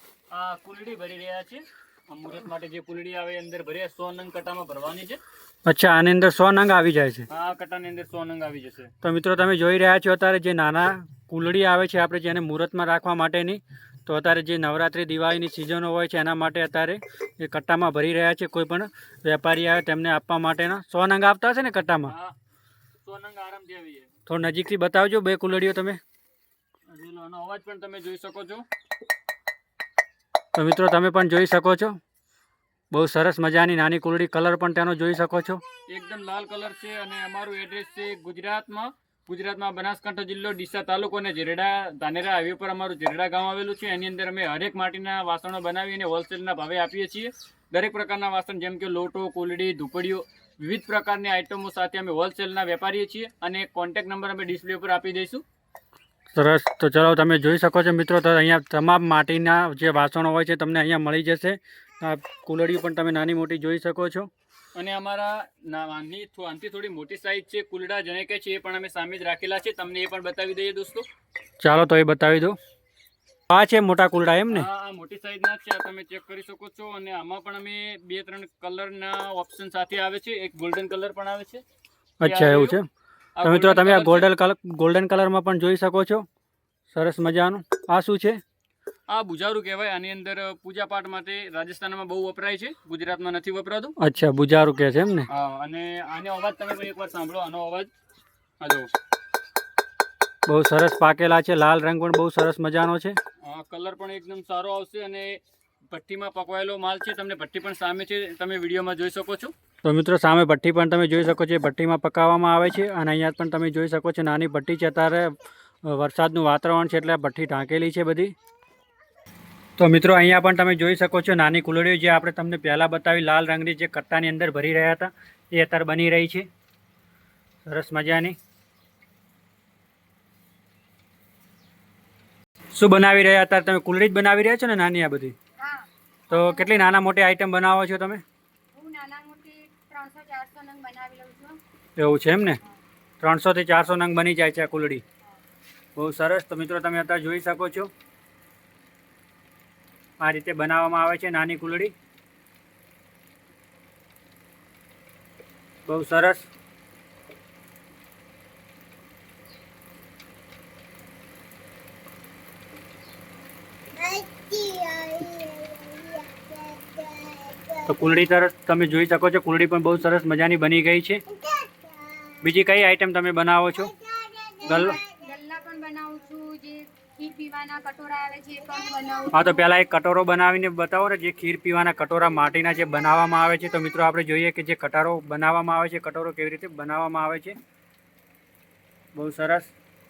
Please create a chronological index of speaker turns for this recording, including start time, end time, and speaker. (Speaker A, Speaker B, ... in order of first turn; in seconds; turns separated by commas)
Speaker A: 0.3-5.2, Speaker B: 5.7-7.2, Speaker A: 7.3-8.9, Speaker B: 9.0-22.1, Speaker A: 23.0-24.1, Speaker B: 24.3-26.0, Speaker A: 26.9-28.6, Speaker B: 30.5-32.0, Speaker B: 32.9-35.6, Speaker A: 35.9-55.4, Speaker B: 56.3-64.3, Speaker A: 64.8-71.1, Speaker B: 71.6-72.6, Speaker B: 73.5-74.7, Speaker A: 74.5-81.6, Speaker B: 82.2-82.9, Speaker A: 82.2-82.8, Speaker A: 83.4-84.3, Speaker B: 83.4-86.2, Speaker B: 86.9-88.4, Speaker A: 89.1-93.9, Speaker B: 94.0-95.3, Speaker A: 95.3-97.9, Speaker A: 98.6-98.9, Speaker B: 100.5-103.2, Speaker A: 103.4-109.5, Speaker B: 109.8-118.3, Speaker B: 119.8-126.5, Speaker B: 127.7-128.3, Speaker B: 132.8-135.3, Speaker C: 135.6-137.0, Speaker B: 136.3-138.2, Speaker C: 138.7-141.6, Speaker B: 142.0-142.6, Speaker B: 143.2-145.0, Speaker B: 146.0-147.9, Speaker B: 150.2-151.9, Speaker B: 155.9-156.5, Speaker C: 164.0-167.6, Speaker B: 167.8-171.2, Speaker B: 172.4-173.9, Speaker C: 174.2-179.6, Speaker B: 174.7-175.0, Speaker B: 179.3-187.5, Speaker B: 189.2-189.7